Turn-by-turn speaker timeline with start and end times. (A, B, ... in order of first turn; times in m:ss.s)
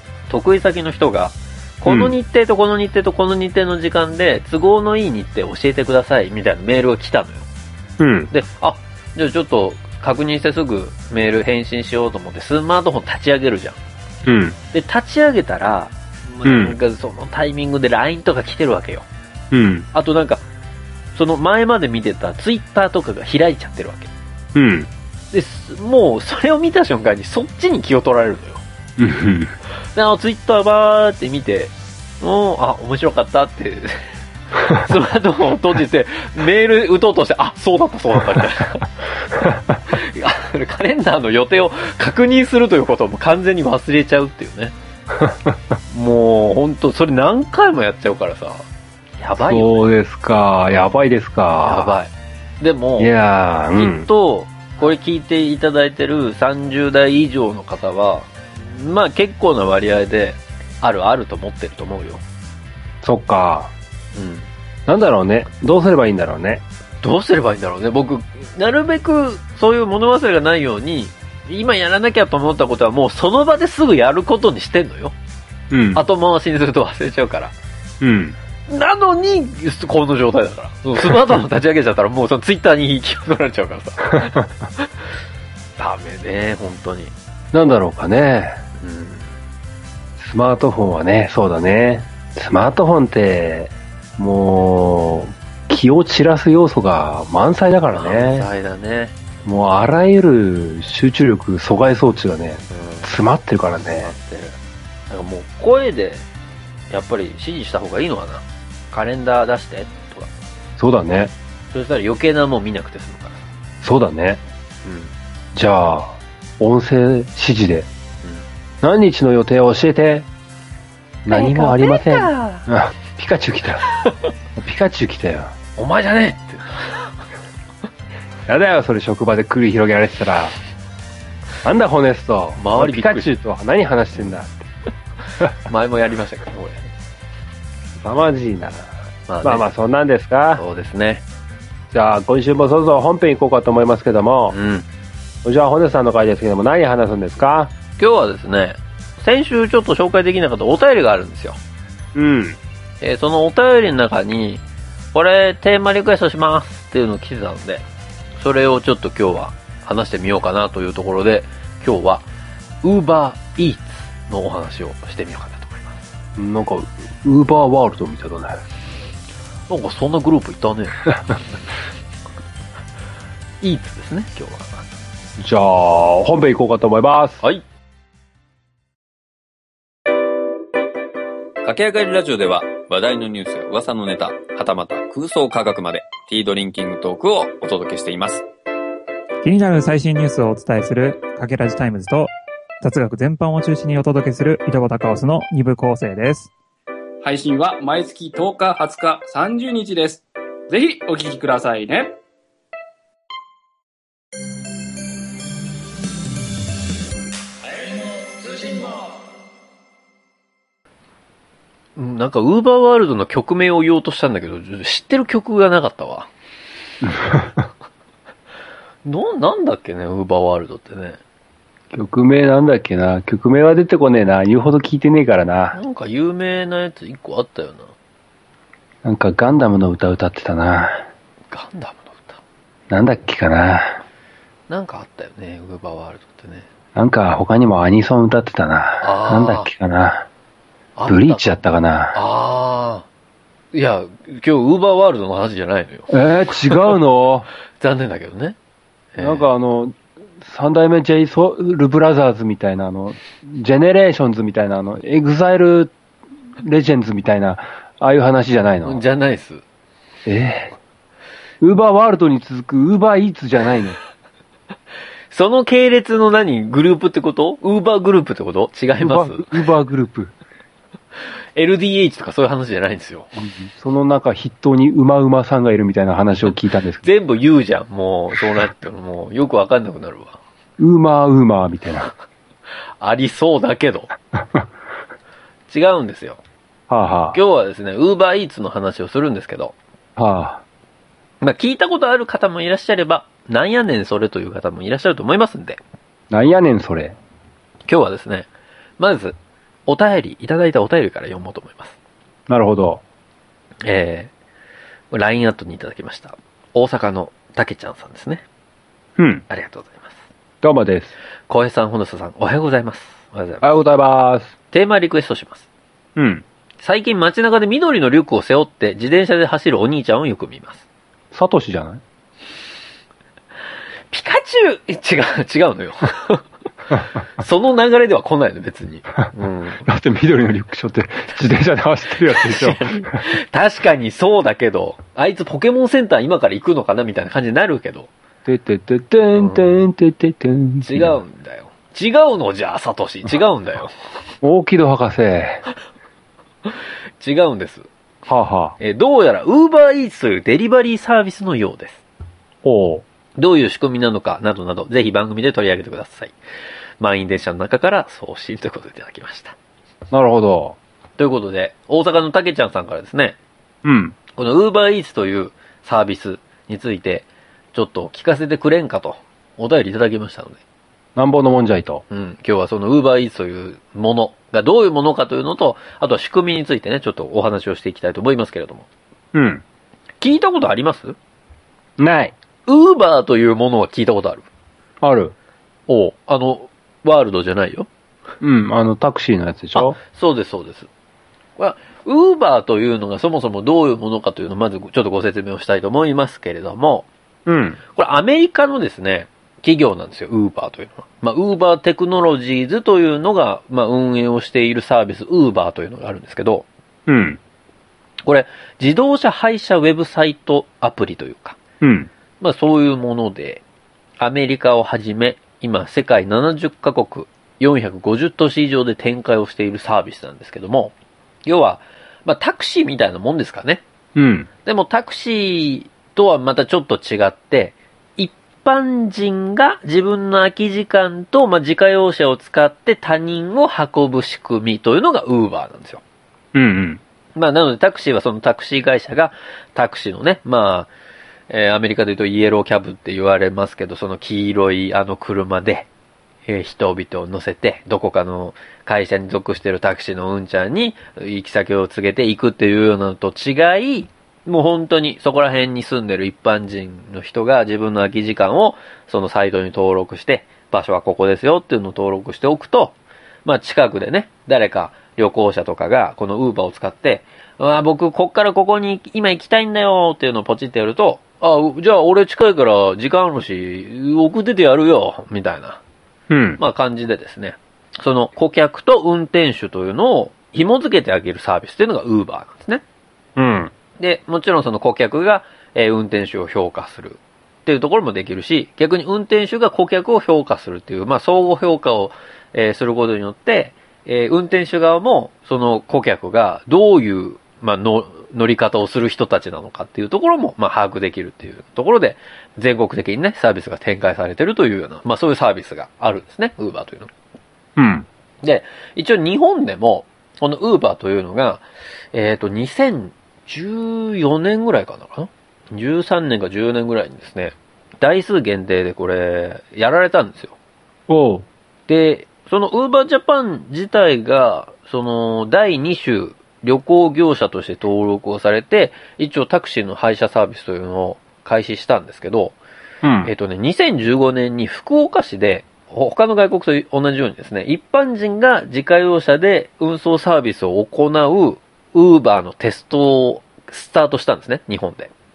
0:00.3-0:07.5 A
0:01.8-0:02.1 B
0:08.0-0:08.3 B
0:08.3-0:13.8 A
0:14.2-0:14.6 B
0:14.7-0:19.0 A
0:16.4-0:16.7 B
0:19.5-0:19.9 B
0:19.9-0:20.4 A
0:21.1-0:24.1 A
0:24.5-0:24.9 B
0:25.3-0:28.6 A
0:29.0-0:29.5 B
0:29.9-0:38.9 A
0:39.9-0:44.7 A
0:45.1-0:45.6 B
0:45.9-0:48.6 A
0:49.2-0:49.8 A
0:49.4-0:52.0 B
0:51.6-0:53.1 A
0:53.0-0:54.1 B
0:53.8-1:02.2 A
1:03.0-1:03.7 B
1:04.1-1:04.5 A
1:04.9-1:06.6 B
1:07.0-1:15.1 A
1:15.7-1:16.0 B
1:15.9-1:17.5 A
1:18.0-1:18.4 B
1:18.7-1:24.9 A
1:25.8-1:27.1 A
1:27.5-1:28.6 B
1:28.8-1:29.3 A
1:30.2-1:38.5 B
1:37.9-1:39.1 A
1:39.4-1:44.1 B
1:42.7-1:43.1 A
1:43.8-1:44.6 A
1:45.1-1:46.2 A
1:46.9-1:50.3 A
1:50.8-1:51.3 B
1:51.7-1:53.4 A
1:53.8-1:54.4 B
1:54.8-1:55.1 A
1:55.5-1:57.9 B
1:58.8-2:00.3 B
2:01.2-2:03.8 B
2:01.3-2:02.7 A
2:04.6-2:05.5 B
2:05.8-2:07.1 A
2:08.5-2:10.6 B
2:11.6-2:14.7 B
2:12.6-2:13.3 A
2:15.6-2:16.9 A
2:18.0-2:18.9 B
2:19.3-2:19.7 A
2:19.4-2:20.6 B
2:20.5-2:21.2 A
2:21.9-2:24.6 B
2:24.5-2:24.8 A
2:25.4-2:27.7 B
2:28.0-2:31.6 A
2:32.1-2:32.6 B
2:33.0-2:34.6 A
2:35.1-2:37.8 A
2:38.4-2:42.3 A
2:42.8-2:46.0 A
2:46.4-2:48.6 B
2:49.7-2:51.0 A
2:53.6-2:54.9 A
2:55.4-2:57.4 B
3:01.6-3:08.4 C
3:09.4-3:16.5 D
3:17.2-3:22.1 E
3:27.7-3:29.1 E
3:32.0-3:36.3 A
3:37.0-3:37.5 B
3:39.0-3:41.2 A
3:41.9-3:45.8 B
3:45.7-3:47.9 A
3:49.0-3:51.0 B
3:51.5-3:52.4 A
3:52.9-3:54.0 B
3:54.7-3:56.6 A
3:56.9-4:00.3 B
3:59.0-3:59.7 A
4:01.0-4:01.6 A
4:01.1-4:02.2 B
4:02.1-4:03.0 A
4:03.7-4:06.1 A
4:06.1-4:07.5 B
4:07.8-4:08.6 A
4:09.1-4:09.5 A
4:09.2-4:15.9 B
4:16.6-4:19.0 B
4:18.8-4:19.6 A
4:20.2-4:20.7 B
4:21.6-4:24.0 B
4:25.3-4:29.6 A
4:29.0-4:30.3 B
4:31.6-4:33.3 A
4:33.4-4:37.0 B
4:37.0-4:40.4 A
4:40.8-4:42.1 B
4:43.0-4:44.1 A
4:45.7-4:46.4 A
4:46.9-4:47.4 B
4:47.3-4:49.8 A
4:50.2-4:50.6 B
4:51.4-4:55.8 A
4:56.3-4:57.2 B
4:57.9-4:59.4 A
4:59.9-5:02.0 A
5:02.5-5:03.0 B
5:03.8-5:04.3 A
5:05.1-5:08.4 A
5:09.2-5:09.4 B
5:09.5-5:10.2 A
5:10.6-5:11.1 B
5:11.5-5:13.7 A
5:13.6-5:14.5 B
5:14.7-5:15.6 A
5:16.2-5:16.4 B
5:16.8-5:20.8 A
5:21.3-5:22.0 B
5:24.1-5:26.4 A
5:27.4-5:29.8 A
5:29.8-5:33.2 B
5:32.3-5:38.1 A
5:38.4-5:41.2 B
5:39.3-5:39.7 A
5:40.8-5:43.9 A
5:44.4-5:45.6 B
5:46.7-5:47.9 A
5:48.2-5:48.8 B
5:48.8-5:52.0 A
5:52.6-5:53.0 B
5:53.4-5:56.3 A
5:57.0-5:59.5 A
6:00.1-6:00.8 B
6:01.2-6:03.4 A
6:03.8-6:04.2 B
6:04.3-6:10.6 A
6:11.2-6:12.0 B
6:12.1-6:18.9 A
6:19.3-6:19.6 B
6:20.2-6:21.2 A
6:22.0-6:22.3 B
6:22.7-6:24.4 A
6:25.0-6:25.3 B
6:25.9-6:27.9 A
6:28.4-6:30.0 B
6:29.7-6:30.9 A
6:31.6-6:37.1 A
6:37.4-6:37.8 B
6:37.9-6:46.7 A
6:47.1-6:47.4 B
6:48.2-6:51.6 A
6:51.8-6:52.1 B
6:52.4-6:53.6 A
6:54.2-7:00.9 A
7:01.4-7:03.8 A
7:04.2-7:04.5 B
7:04.6-7:16.0 A
7:16.5-7:17.0 B
7:17.4-7:20.9 A
7:21.5-7:25.9 A
7:26.4-7:55.8 A
7:56.3-7:56.6 B
7:56.6-8:02.8 A
8:03.4-8:03.7 B
8:04.0-8:27.1 A
8:27.8-8:28.0 B
8:28.4-8:40.6 A
8:41.1-8:41.4 B
8:41.9-8:52.6 A
8:53.0-8:53.3 B
8:53.2-9:05.1 A